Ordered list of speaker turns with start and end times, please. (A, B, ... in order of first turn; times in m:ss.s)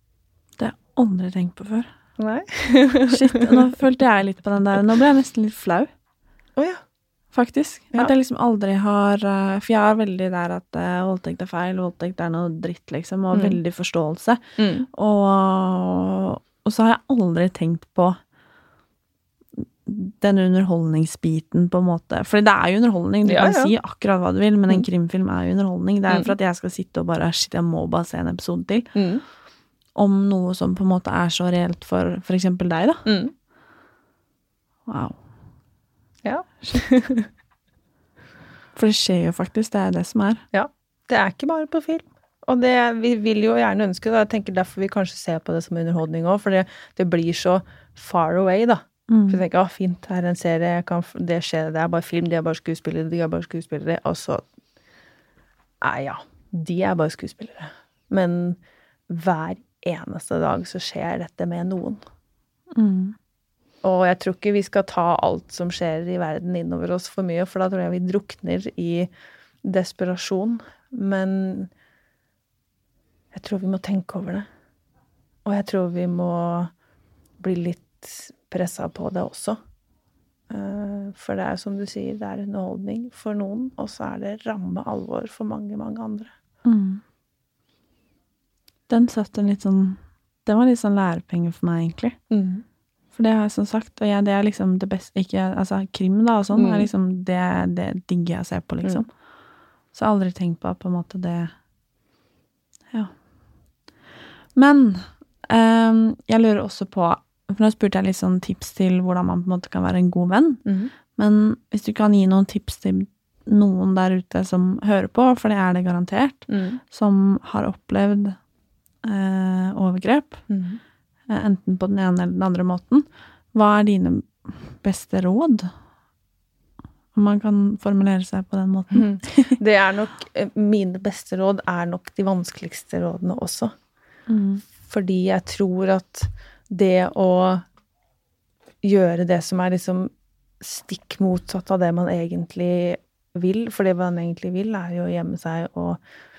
0:00.6-0:01.9 A
0:02.2-0:03.6 B
0:03.1-0:05.9 A
0:07.3-0:14.4 A
0:13.3-0:13.6 B
0:14.6-0:14.9 B
0:14.9-0:18.2 A
0:19.6-0:28.9 A
0:23.2-0:23.7 B
0:29.0-0:29.2 B
0:30.0-0:33.0 A
0:33.1-0:33.3 B
0:34.9-0:35.2 A
0:36.2-0:37.3 B
0:38.8-0:40.4 A
0:40.5-0:54.4 B
0:49.1-0:49.4 A
0:55.8-1:02.0 B
1:02.7-1:03.2 A
1:03.8-1:09.1 B
1:09.6-1:11.7 B
1:13.3-1:14.5 B
1:15.4-1:16.7 B
1:17.4-1:19.6 B
1:20.5-1:26.3 B
1:26.6-1:27.0 A
1:28.9-1:32.2 A
1:32.3-1:32.6 B
1:33.1-1:39.1 A
1:36.6-1:36.9 B
1:39.9-1:41.5 A
1:44.6-1:50.6 A
1:50.7-1:50.9 B
1:51.2-1:58.4 A
1:56.5-1:56.8 B
1:59.0-2:00.4 A
2:00.5-2:00.8 B
2:01.3-2:05.7 A
2:07.1-2:09.6 A
2:08.9-2:13.7 B
2:14.3-2:14.6 A
2:14.8-2:17.6 B
2:18.8-2:20.1 B
2:20.6-2:26.0 B